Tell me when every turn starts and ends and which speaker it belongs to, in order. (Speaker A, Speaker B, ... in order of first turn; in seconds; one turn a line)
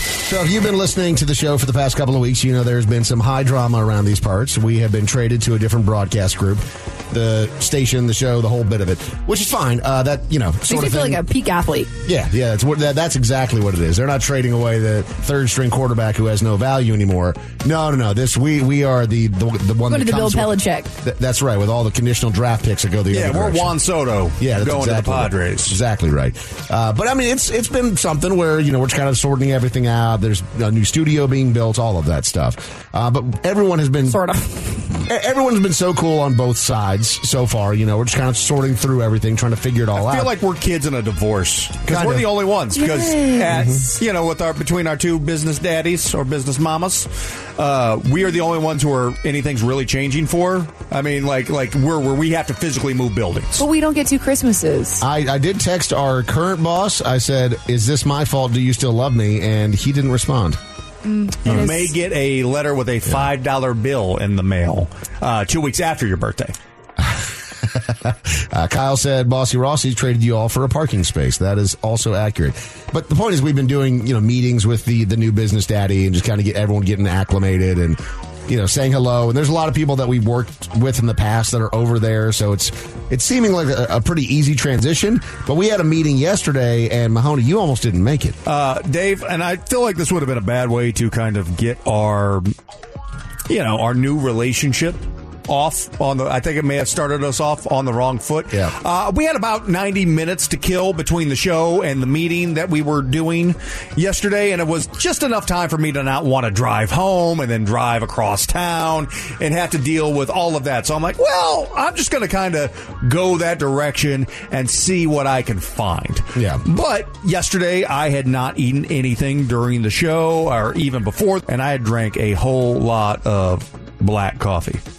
Speaker A: 0.2-11.2
Speaker B: 10.7-11.9
Speaker A: 12.0-23.7
Speaker B: 19.9-20.9
Speaker C: 23.1-25.8
Speaker A: 24.4-34.2
Speaker B: 34.1-34.8
Speaker A: 35.1-40.3
Speaker C: 39.9-53.6
Speaker A: 41.9-42.3
Speaker B: 42.7-43.9
Speaker A: 43.5-43.8
Speaker B: 53.5-55.0
Speaker A: 55.0-60.6
Speaker B: 61.0-61.9
Speaker C: 61.4-66.5
Speaker A: 67.0-88.4
Speaker C: 88.5-92.5
Speaker C: 93.5-124.8
Speaker A: 116.3-116.6